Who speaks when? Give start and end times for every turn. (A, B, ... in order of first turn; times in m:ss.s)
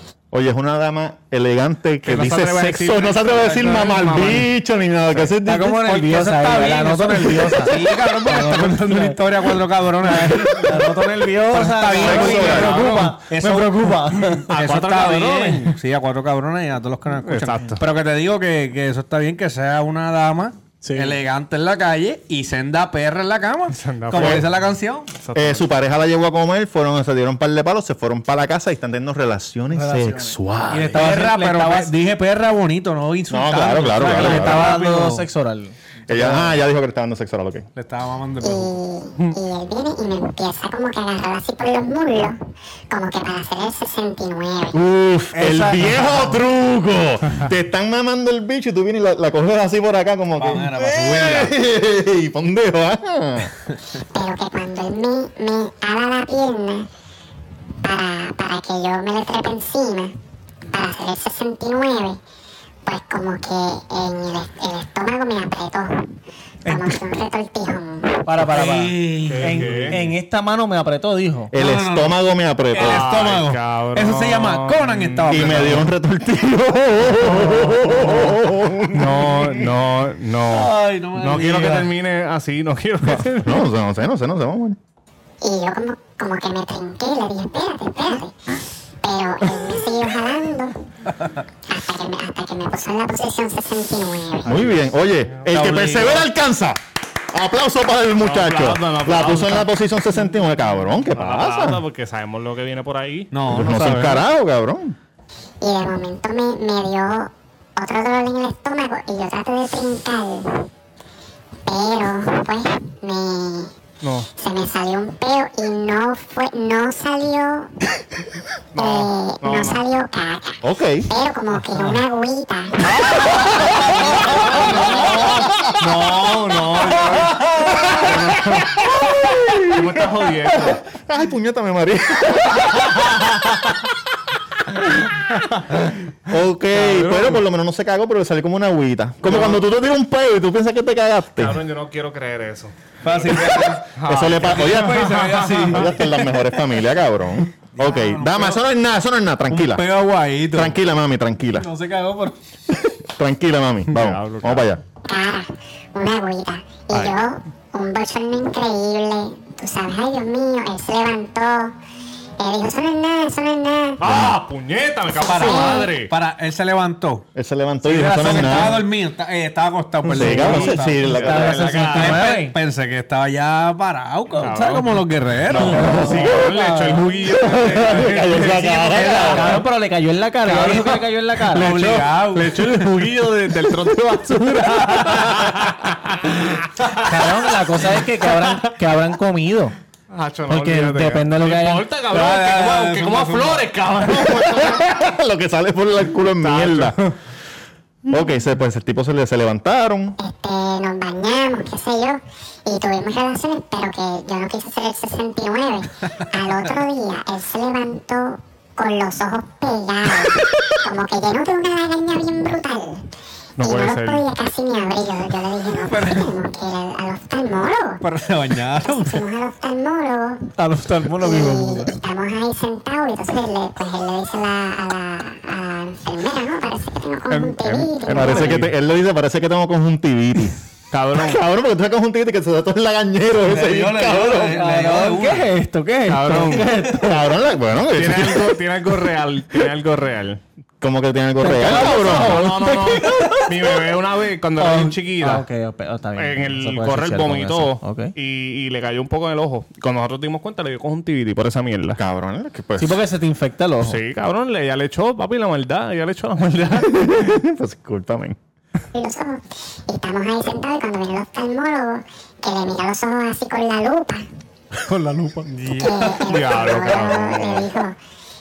0:00.3-0:06.1 A
0:02.0-0:04.5 B
0:05.4-0:09.2 C
0:06.0-0:25.1 D
0:10.1-0:14.5 C
0:12.0-0:12.8 A
0:12.0-0:13.1 B
0:14.5-0:15.8 B
0:17.2-0:17.8 B
0:20.8-0:21.2 C
0:23.7-0:24.5 B
0:24.2-0:24.4 A
0:25.2-0:25.7 B
0:25.4-0:31.0 A
0:29.7-0:30.4 C
0:30.7-0:35.3 D
0:30.9-0:31.9 C
0:33.3-0:34.7 A
0:34.0-0:36.6 C
0:36.1-0:37.7 A
0:37.8-0:38.8 D
0:38.4-0:42.4 E
0:42.9-0:44.8 E
0:44.7-0:53.5 A
0:45.3-0:46.4 C
0:50.4-0:51.6 D
0:54.1-0:56.9 E
0:57.8-1:00.1 E
1:00.7-1:02.2 E
1:02.9-1:06.1 E
1:06.6-1:08.2 E
1:08.2-1:11.5 C
1:08.4-1:10.1 D
1:09.3-1:10.0 B
1:11.5-1:13.2 A
1:11.6-1:12.2 D
1:12.7-1:15.9 B
1:12.7-1:15.9 D
1:15.3-1:19.7 A
1:17.3-1:17.8 B
1:18.9-1:23.7 B
1:20.5-1:21.9 D
1:23.1-1:24.8 A
1:25.4-1:28.5 E
1:29.0-1:30.7 E
1:31.6-1:34.8 E
1:34.4-1:36.8 A
1:35.5-1:36.3 D
1:37.3-1:41.8 A
1:38.2-1:39.7 B
1:41.1-1:43.3 B
1:43.3-1:44.2 D
1:43.5-1:45.0 A
1:45.6-1:50.7 E
1:51.7-1:53.7 E
1:54.0-1:54.3 B
1:54.4-1:57.7 E
1:58.7-1:59.8 B
1:58.8-2:02.9 E
2:00.6-2:01.1 A
2:02.9-2:09.0 B
2:03.2-2:05.8 A
2:04.6-2:04.9 E
2:05.0-2:07.8 D
2:07.6-2:13.6 A
2:09.6-2:10.8 B
2:15.3-2:16.0 B
2:16.3-2:21.6 A
2:16.7-2:17.4 B
2:19.3-2:19.6 B
2:21.4-2:26.0 B
2:23.0-2:26.0 D
2:24.0-2:29.8 A
2:27.8-2:28.6 D
2:29.5-2:30.8 D
2:30.5-2:31.7 A
2:31.5-2:32.4 C
2:33.0-2:34.8 A
2:33.9-2:34.7 B
2:35.0-2:41.7 E
2:36.9-2:37.2 B
2:42.4-2:44.0 E
2:44.0-2:46.1 B
2:44.0-2:44.4 A
2:45.2-2:47.2 D
2:45.4-2:45.9 E
2:47.4-2:48.8 A
2:47.9-2:51.1 D
2:50.2-2:51.8 A
2:50.2-2:52.6 C
2:51.0-2:52.4 B
2:51.8-2:56.1 D
2:54.4-2:59.6 B
2:55.5-2:56.4 A
2:55.7-2:57.0 C
2:57.4-2:59.6 A
2:57.8-2:59.6 D
2:59.2-3:01.8 C
3:00.5-3:01.0 D
3:00.7-3:00.9 B
3:01.5-3:02.8 D
3:01.5-3:06.7 B
3:07.0-3:09.8 C
3:10.1-3:14.8 B
3:10.5-3:11.9 C
3:12.1-3:13.8 D
3:14.1-3:17.0 A
3:16.4-3:17.2 B
3:18.1-3:20.2 A
3:20.2-3:33.1 E
3:33.6-3:34.2 B
3:33.6-3:38.0 E
3:35.7-3:36.4 D
3:38.0-3:39.2 D
3:38.8-3:40.4 E
3:40.6-3:42.0 C
3:41.2-3:48.6 E
3:47.3-3:48.8 B
3:48.1-3:50.6 A
3:50.9-3:51.4 B
3:51.1-3:54.6 A
3:53.4-3:55.5 D
3:54.5-3:57.2 C
3:56.1-3:56.8 B
3:57.0-3:58.6 A
3:57.9-4:00.4 B
4:00.8-4:03.4 A
4:01.4-4:03.5 C
4:01.6-4:05.4 B
4:04.6-4:08.1 C
4:06.2-4:12.0 B
4:12.0-4:13.0 A
4:12.8-4:14.0 C
4:13.8-4:17.4 B
4:16.8-4:18.4 A
4:18.9-4:24.3 E
4:24.9-4:25.5 C
4:24.9-4:26.8 D
4:25.8-4:28.0 E
4:26.2-4:27.7 B